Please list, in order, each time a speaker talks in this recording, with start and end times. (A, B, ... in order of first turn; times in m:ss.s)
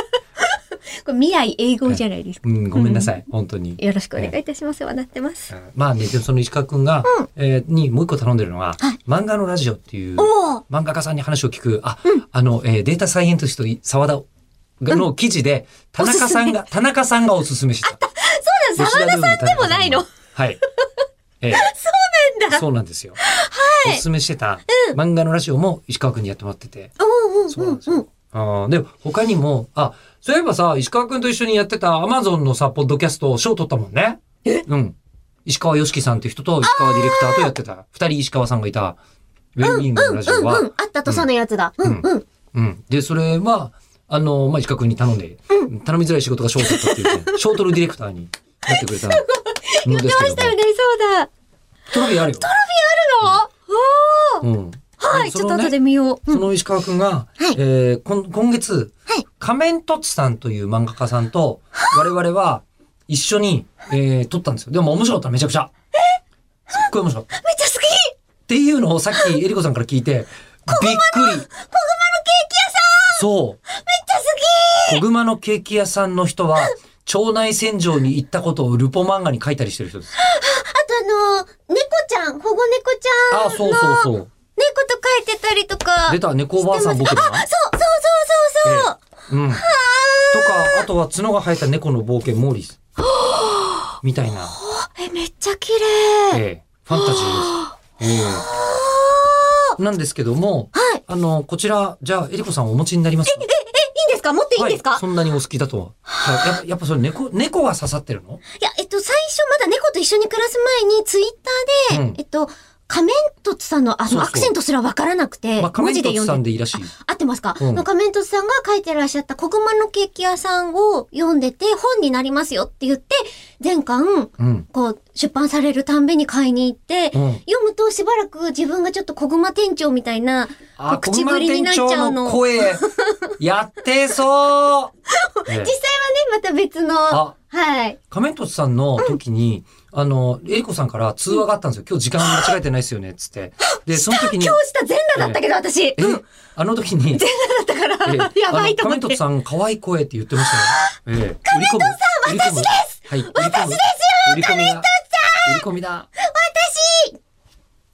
0:00.4-0:03.1 A
0:01.9-0:04.4 B
0:03.8-0:05.5 A
0:05.5-0:14.3 B
0:10.2-0:10.6 A
0:14.8-0:18.0 B
0:16.0-0:16.6 A
0:17.8-0:20.1 A
0:18.8-0:20.6 B
0:21.4-0:21.7 B
0:21.5-0:22.6 A
0:22.5-0:23.2 B
0:23.2-0:24.0 A
0:23.8-0:26.9 B
0:24.7-0:25.0 A
0:27.0-0:28.1 A
0:27.5-0:39.0 B
0:36.6-0:37.5 A
0:39.6-0:41.3 B
0:39.6-0:42.2 A
0:41.8-0:49.2 B
0:46.6-0:47.4 A
0:48.7-0:51.3 A
0:49.8-0:50.6 B
0:51.9-0:52.5 B
0:51.9-0:54.4 A
0:54.4-0:55.8 B
0:55.0-0:56.5 A
0:56.3-1:05.7 B
1:06.7-1:07.3 B
1:07.4-1:08.2 A
1:08.5-1:11.5 B
1:10.7-1:15.0 A
1:13.1-1:13.6 B
1:14.9-1:20.1 B
1:20.2-1:29.0 A
1:23.3-1:24.3 B
1:26.1-1:27.5 B
1:28.6-1:29.7 B
1:29.6-1:30.9 A
1:30.3-1:32.8 B
1:33.0-1:39.7 A
1:34.0-1:34.5 B
1:36.3-1:38.5 B
1:39.8-1:43.5 B
1:40.7-1:41.0 A
1:43.3-1:45.0 A
1:44.6-1:48.4 B
1:46.1-1:46.5 A
1:48.6-2:13.3 A
1:51.9-1:52.2 B
1:54.1-1:54.5 B
1:55.6-1:56.9 B
1:57.6-1:57.8 B
2:04.4-2:04.7 B
2:07.1-2:07.4 B
2:10.8-2:12.9 B
2:13.4-2:14.9 B
2:15.1-2:18.0 A
2:15.5-2:15.8 B
2:17.1-2:17.4 B
2:18.1-2:24.6 B
2:22.2-2:22.5 A
2:23.8-2:26.2 A
2:25.2-2:25.4 B
2:26.0-2:27.2 B
2:27.2-2:29.2 A
2:28.0-2:34.9 B
2:30.4-2:30.9 A
2:31.5-2:35.5 A
2:35.4-2:36.1 B
2:36.2-2:37.2 A